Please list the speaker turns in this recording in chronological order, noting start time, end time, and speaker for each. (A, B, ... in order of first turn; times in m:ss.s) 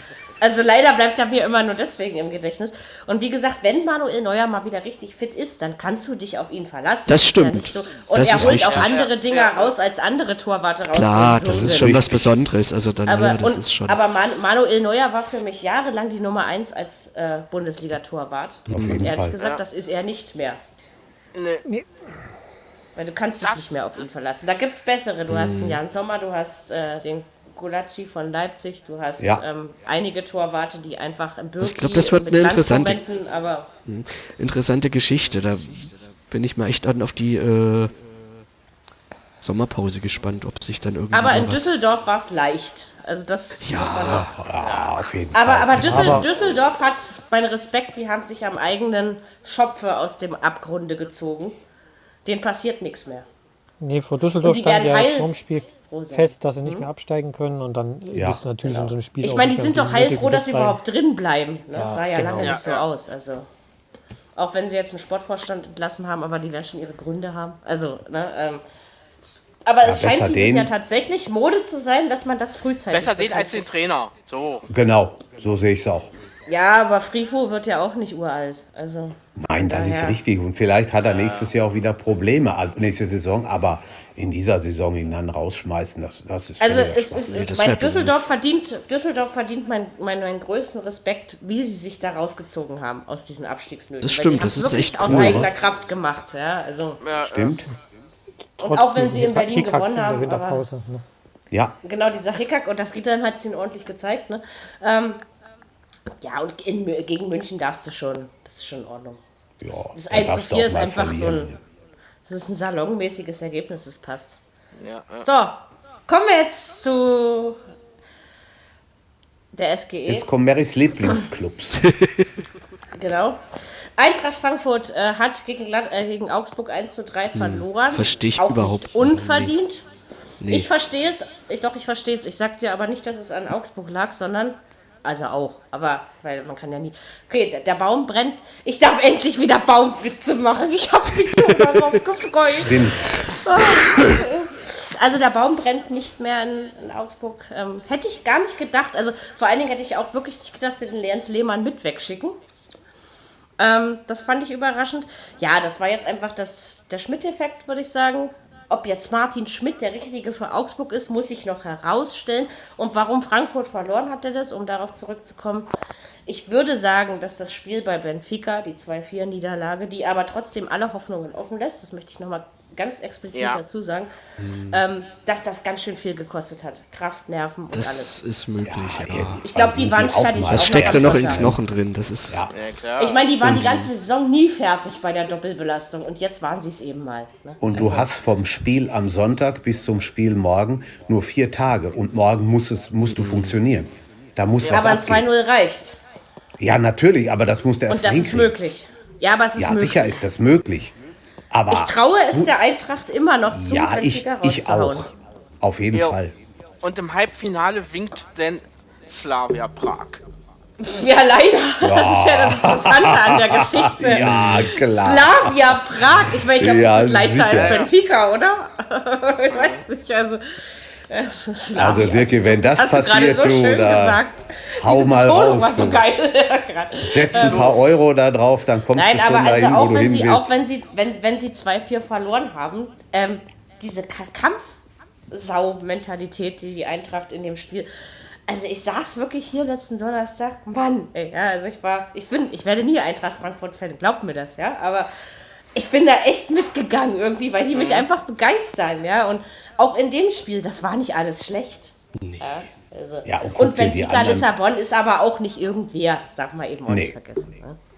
0:00.4-0:12.0 A
0:07.1-0:09.0 B
0:08.3-0:09.7 C
0:10.9-0:14.0 B
0:11.4-0:12.4 D
0:13.0-0:20.6 A
0:18.7-0:19.4 D
0:18.7-0:19.1 B
0:21.3-0:21.6 C
0:23.0-0:33.7 A
0:23.4-0:24.1 C
0:25.3-0:25.8 B
0:31.6-0:33.0 B
0:33.8-0:37.9 B
0:39.4-0:41.7 B
0:41.1-0:44.3 A
0:43.6-0:44.3 B
0:44.1-0:46.2 D
0:44.6-0:45.0 C
0:45.3-0:51.6 A
0:45.8-0:46.3 E
0:52.2-0:53.2 A
0:53.8-1:00.8 E
0:54.4-0:55.3 A
0:55.9-0:56.9 A
0:58.1-0:58.4 D
0:58.6-1:03.5 A
1:01.7-1:02.6 E
1:02.4-1:02.8 C
1:04.4-1:08.6 A
1:09.6-1:13.6 A
1:09.8-1:10.7 D
1:12.9-1:14.6 C
1:14.7-1:16.1 D
1:16.5-1:20.2 A
1:19.4-1:27.4 D
1:21.0-1:21.5 C
1:26.6-1:37.0 A
1:27.3-1:28.2 B
1:34.0-1:35.5 B
1:35.0-1:35.5 D
1:37.0-1:37.6 C
1:37.2-1:37.7 D
1:38.6-1:41.0 E
1:38.6-1:40.6 A
1:41.5-1:41.8 D
1:41.8-1:45.2 A
1:46.2-1:49.2 A
1:49.6-1:51.6 D
1:49.9-1:51.5 A
1:52.2-1:54.4 A
1:54.8-1:55.3 C
1:55.2-1:57.6 A
1:59.5-2:00.3 A
2:00.0-2:01.9 D
2:01.8-2:02.2 B
2:03.0-2:09.8 A
2:07.3-2:09.5 B
2:10.4-2:10.7 B
2:10.5-2:32.4 A
2:22.5-2:23.4 D
2:33.6-2:45.7 A
2:46.2-2:58.1 A
2:53.3-2:53.6 C
2:54.4-2:54.8 B
2:57.7-2:59.4 B
2:58.6-3:01.6 D
2:59.4-3:01.5 A
3:00.4-3:02.4 B
3:02.5-3:03.2 C
3:03.0-3:08.1 A
3:03.4-3:03.7 D
3:03.4-3:03.9 B
3:07.6-3:15.3 D
3:13.1-3:13.6 B
3:14.6-3:14.9 C
3:14.7-3:16.0 A
3:16.6-3:18.5 D
3:17.9-3:20.2 A
3:19.6-3:20.9 D
3:21.5-3:22.5 D
3:21.7-3:25.1 A
3:23.5-3:26.3 D
3:26.8-3:30.2 C
3:30.8-3:47.8 A
3:31.8-3:37.8 D
3:37.5-3:37.9 C
3:39.5-3:39.8 C
3:41.8-3:44.2 D
3:44.8-3:46.1 D
3:47.0-3:50.6 D
3:47.4-3:47.7 C
3:48.9-3:54.8 A
3:55.3-3:57.9 A
3:58.5-4:05.1 A
4:05.7-4:17.8 A
4:07.7-4:08.1 C
4:13.2-4:14.5 D
4:16.9-4:17.2 D